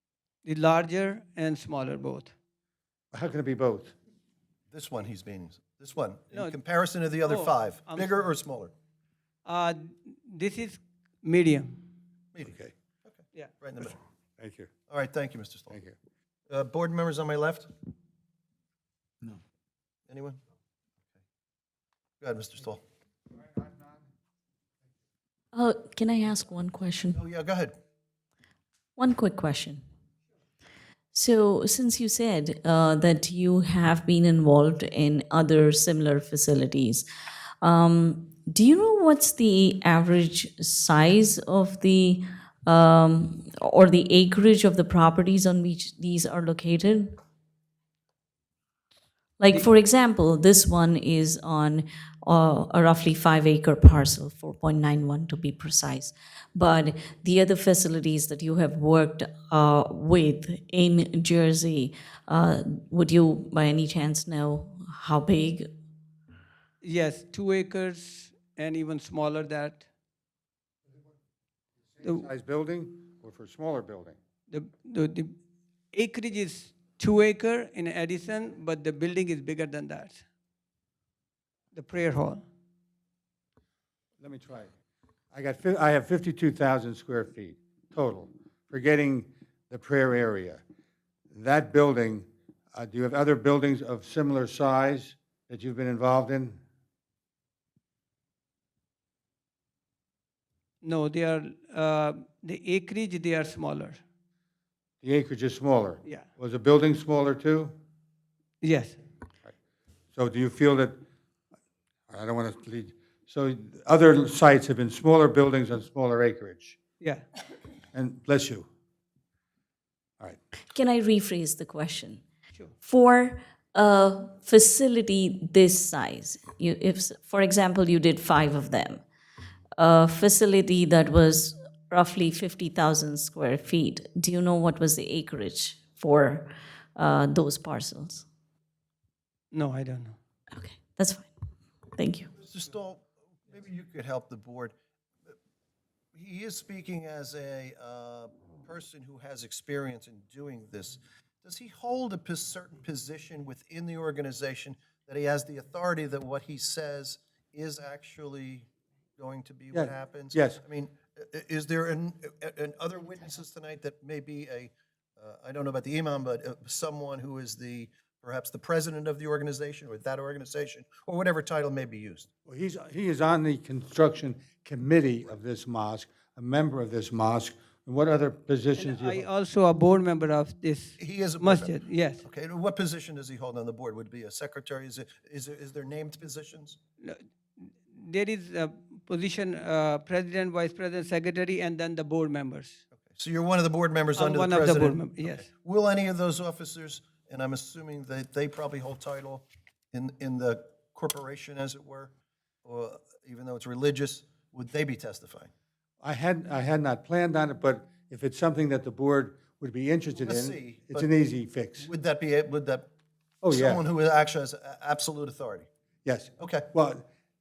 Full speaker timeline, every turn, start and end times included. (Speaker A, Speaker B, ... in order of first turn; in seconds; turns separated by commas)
Speaker A: 0.4-2.3, Speaker B: 3.1-3.9, Speaker C: 4.7-8.7, Speaker A: 6.3-6.6, Speaker A: 7.2-8.3, Speaker A: 9.4-11.8, Speaker C: 12.3-14.0, Speaker B: 12.4-12.7, Speaker B: 14.4-14.7, Speaker C: 14.9-15.8, Speaker B: 15.7-15.9, Speaker C: 16.5-17.7, Speaker C: 20.1-20.4, Speaker C: 22.2-22.8, Speaker D: 25.5-27.2, Speaker C: 27.1-27.7, Speaker D: 29.0-29.8, Speaker D: 31.1-37.0, Speaker D: 37.6-47.1, Speaker D: 49.4-65.7, Speaker A: 66.8-69.8, Speaker B: 72.0-74.2, Speaker A: 74.5-75.3, Speaker A: 75.9-80.2, Speaker A: 81.7-82.4, Speaker B: 84.2-84.7, Speaker B: 85.3-90.6, Speaker B: 91.3-96.6, Speaker A: 100.8-104.0, Speaker B: 105.0-107.7, Speaker A: 108.6-109.0, Speaker B: 110.1-111.0, Speaker B: 112.1-116.8, Speaker B: 117.9-118.7, Speaker D: 120.7-122.2, Speaker D: 122.8-129.0, Speaker D: 129.8-138.2, Speaker A: 139.5-140.2, Speaker D: 140.5-141.3, Speaker D: 141.9-142.3, Speaker C: 142.3-144.7, Speaker C: 146.1-172.3, Speaker B: 159.7-160.6, Speaker B: 172.5-179.2, Speaker A: 178.7-182.2, Speaker C: 181.0-186.8, Speaker A: 187.0-192.8, Speaker C: 193.0-202.1, Speaker A: 194.2-195.5, Speaker C: 202.6-205.5, Speaker B: 206.0-211.9, Speaker C: 210.2-211.1, Speaker C: 211.8-212.9, Speaker B: 213.4-213.8, Speaker C: 213.5-215.7, Speaker B: 216.0-217.0, Speaker C: 216.4-216.7